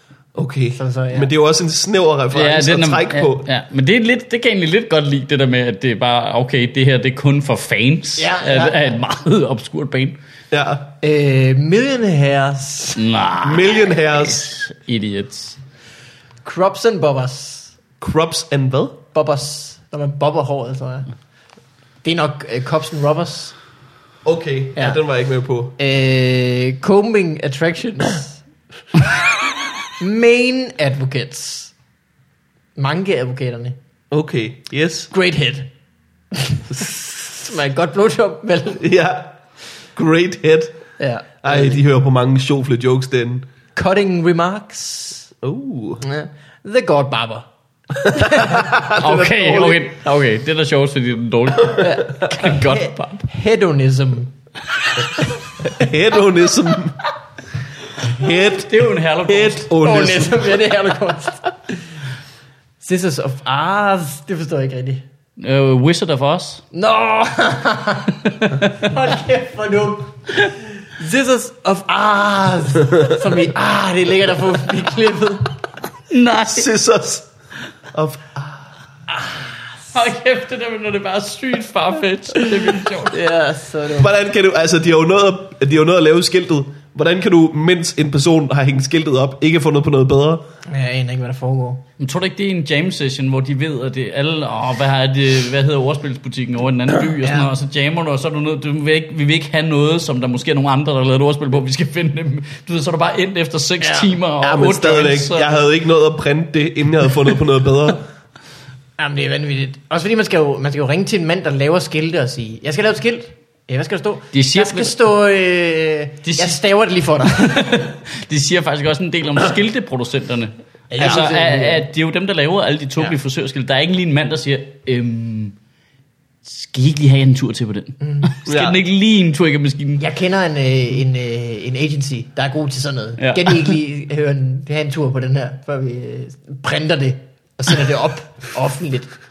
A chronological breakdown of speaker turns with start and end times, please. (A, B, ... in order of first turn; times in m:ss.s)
0:00.4-0:03.5 A
0:00.8-0:01.3 B
0:02.3-0:10.2 C
0:08.2-0:08.8 B
0:10.5-0:10.9 A
0:11.0-0:13.0 B
0:13.0-0:15.6 C
0:13.4-0:14.5 A
0:16.4-0:17.8 B
0:18.0-0:19.0 A
0:19.1-0:21.1 B
0:22.0-0:23.5 B
0:24.2-0:25.7 A
0:24.8-0:25.0 B
0:25.8-0:28.4 B
0:30.0-0:31.7 B
0:32.8-0:33.8 B
0:34.1-0:35.1 A
0:35.1-0:35.7 B
0:36.3-0:38.8 B
0:38.8-0:39.4 A
0:40.0-0:40.8 A
0:41.0-0:41.8 B
0:41.4-0:43.5 A
0:43.8-0:45.3 B
0:45.4-0:46.0 A
0:46.0-0:47.5 B
0:48.0-0:49.9 A
0:48.1-0:48.9 B
0:48.9-0:53.3 C
0:51.8-0:54.3 B
0:55.6-0:57.0 A
0:58.0-1:00.7 A
0:58.4-0:59.7 C
0:59.8-1:01.8 B
1:02.8-1:05.0 B
1:05.4-1:06.6 C
1:06.7-1:15.6 B
1:08.3-1:08.9 C
1:16.1-1:16.7 C
1:16.5-1:17.3 A
1:17.9-1:18.7 A
1:19.1-1:19.7 B
1:19.9-1:23.2 C
1:23.1-1:24.1 B
1:23.9-1:30.4 A
1:30.7-1:31.8 B
1:32.0-1:45.6 C
1:37.2-1:37.5 B
1:43.8-1:44.2 B
1:44.4-1:48.0 A
1:49.0-1:57.8 B
1:54.3-1:54.9 C
1:56.2-1:56.6 C
1:57.3-2:05.6 C
2:00.9-2:01.8 B
2:01.0-2:01.3 A
2:06.4-2:10.0 C
2:08.0-2:08.3 B
2:08.4-2:08.8 A
2:10.0-2:19.1 B
2:13.2-2:13.8 C